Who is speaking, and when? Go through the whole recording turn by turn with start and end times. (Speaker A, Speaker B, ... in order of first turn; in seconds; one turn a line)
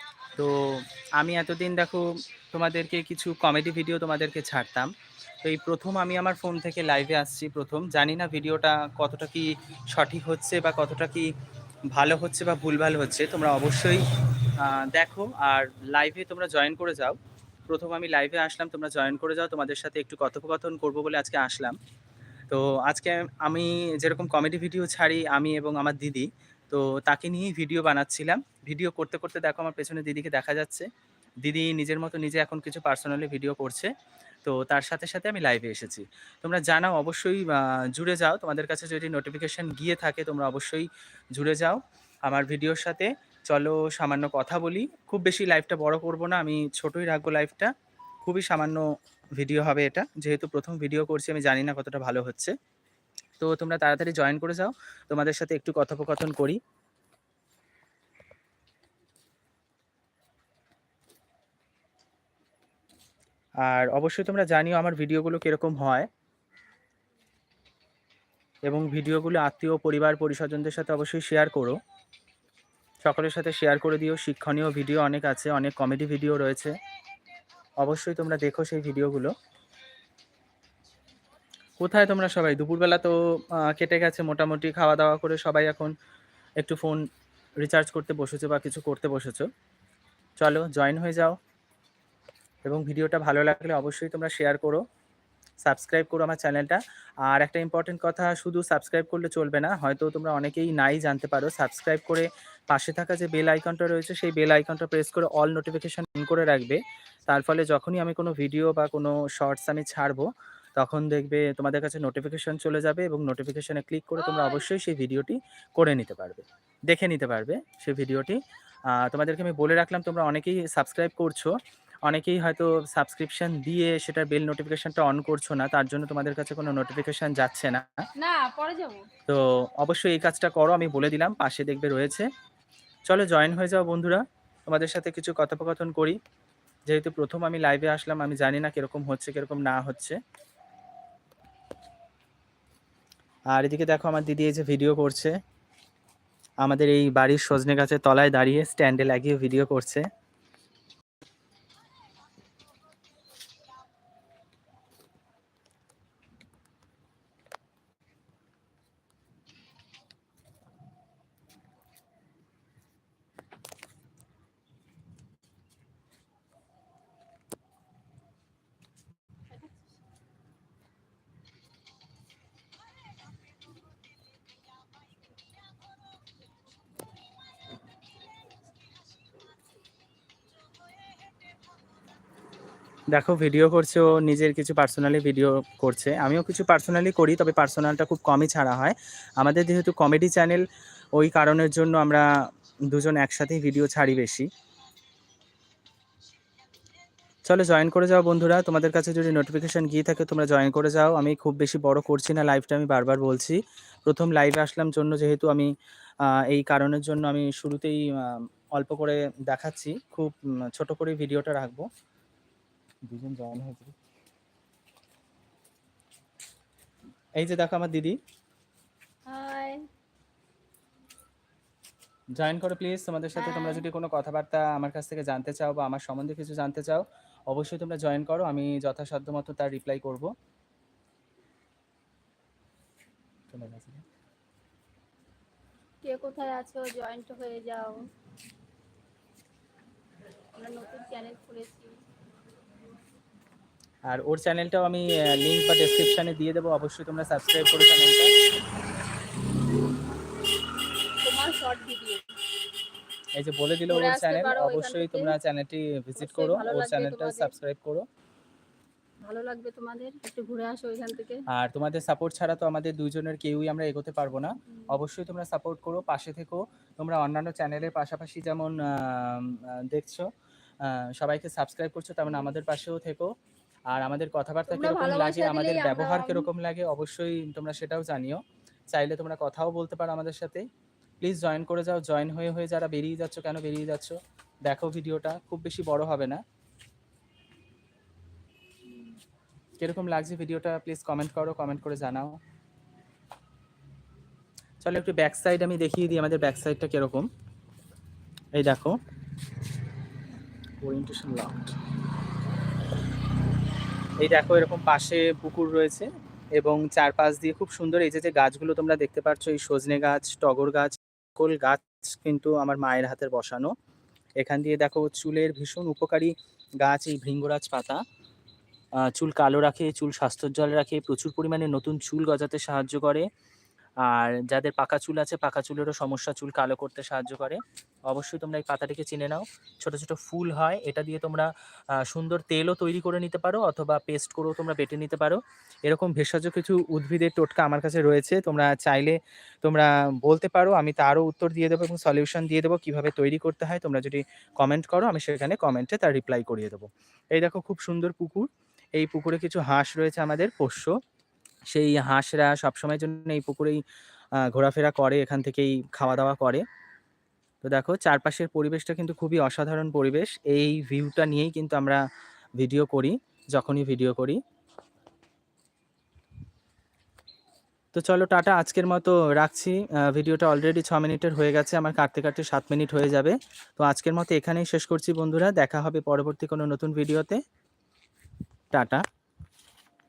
Speaker A: 0.3-4.9
Speaker A: 5.4-11.3
Speaker A: 11.9-14.0
Speaker A: 14.6-17.2
Speaker A: 17.7-21.8
Speaker A: 22.5-30.9
Speaker A: 31.4-33.9
Speaker A: 34.4-47.7
Speaker A: 48.2-48.8
Speaker A: 49.4-52.5
Speaker A: 53.4-56.6
Speaker A: 63.6-66.1
Speaker A: 68.7-71.8
Speaker A: 73.0-76.7
Speaker A: 77.8-79.3
Speaker A: 81.8-85.9
Speaker A: 86.6-87.0
Speaker A: 87.6-89.5
Speaker A: 90.4-91.4
Speaker A: 92.6-94.8
Speaker A: 95.6-128.0
Speaker B: 128.2-129.1
Speaker A: 129.3-132.3
Speaker A: 133.1-136.2
Speaker A: 136.9-140.2
Speaker A: 143.5-145.4
Speaker A: 146.6-150.1
Speaker A: 183.1-192.3
Speaker A: 192.9-194.5
Speaker A: 197.4-205.7
Speaker A: 206.3-211.8
Speaker A: 213.1-213.9
Speaker A: 217.4-218.2
Speaker B: 219.3-219.8
Speaker A: 222.3-230.3
Speaker B: 223.3-223.9
Speaker A: 233.5-234.0
Speaker B: 236.0-238.0
Speaker B: 240.6-241.9
Speaker A: 244.1-248.3
Speaker B: 251.2-252.2
Speaker A: 253.4-258.0
Speaker B: 253.9-255.3
Speaker B: 256.2-257.5
Speaker B: 259.2-261.4
Speaker A: 261.5-270.3
Speaker A: 270.8-273.3
Speaker A: 273.9-278.4
Speaker B: 274.7-276.5
Speaker A: 278.9-280.7
Speaker A: 281.2-286.4
Speaker A: 289.8-292.4
Speaker A: 294.8-297.3
Speaker A: 298.6-299.0
Speaker A: 300.8-301.7
Speaker A: 304.2-313.7
Speaker A: 314.4-318.0
Speaker A: 319.0-323.3
Speaker A: 324.1-351.0
Speaker A: 351.7-353.8
Speaker A: 354.4-356.6
Speaker A: 357.6-362.0
Speaker A: 362.6-364.4
Speaker A: 367.9-377.4
Speaker A: 378.7-379.0